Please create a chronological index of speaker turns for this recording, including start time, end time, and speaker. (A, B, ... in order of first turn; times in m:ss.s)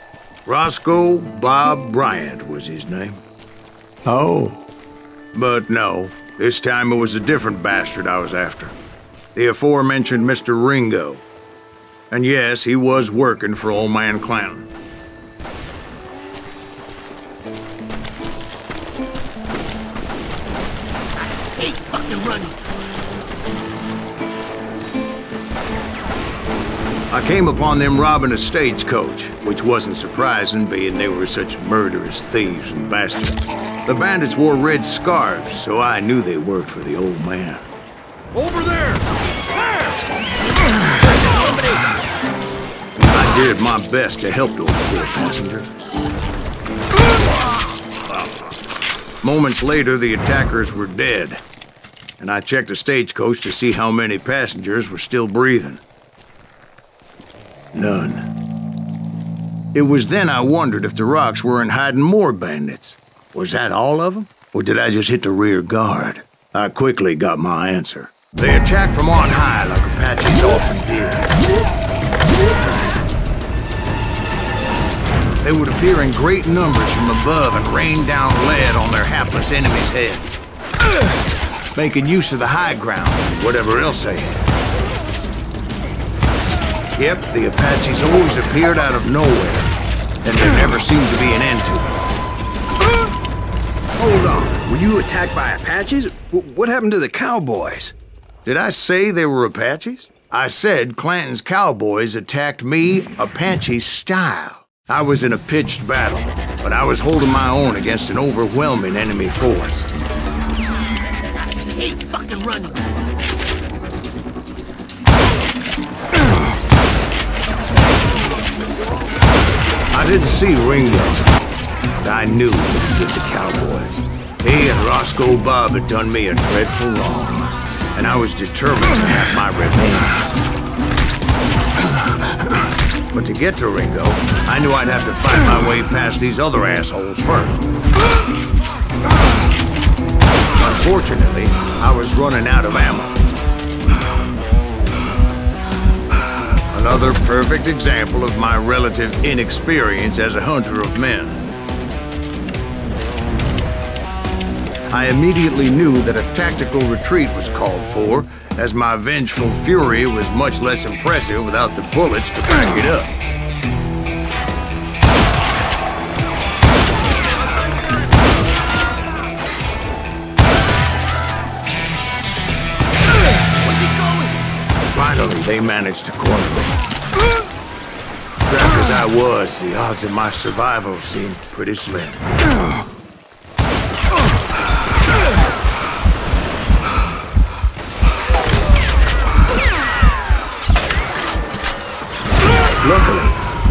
0:00.4-0:03.2 A
0:04.0-0:04.7 B
0:05.3-0:08.8 A
0:09.3-0:11.2 A
0:12.1-0:14.7 A
0:21.6-0:22.6 C
0:27.1-0:37.6 A
0:38.3-0:39.0 A
0:43.0-0:45.7 A
0:49.2-0:51.4 A
0:52.2-0:55.8 A
0:57.7-0:58.3 A
0:59.7-1:11.3 A
1:15.4-1:20.4 A
1:21.7-1:24.4 A
1:26.9-1:29.7 A
1:30.2-1:32.0 A
1:34.0-1:37.9 B
1:38.4-1:49.9 A
1:51.7-1:52.8 C
1:59.9-2:01.3 A
2:01.9-2:10.3 A
2:13.1-2:17.6 A
2:20.6-2:23.2 A
2:26.7-2:31.5 A
2:34.9-2:43.1 A
2:53.8-2:54.3 C
2:54.8-2:56.8 A
2:58.4-3:02.2 A
3:12.8-3:13.4 A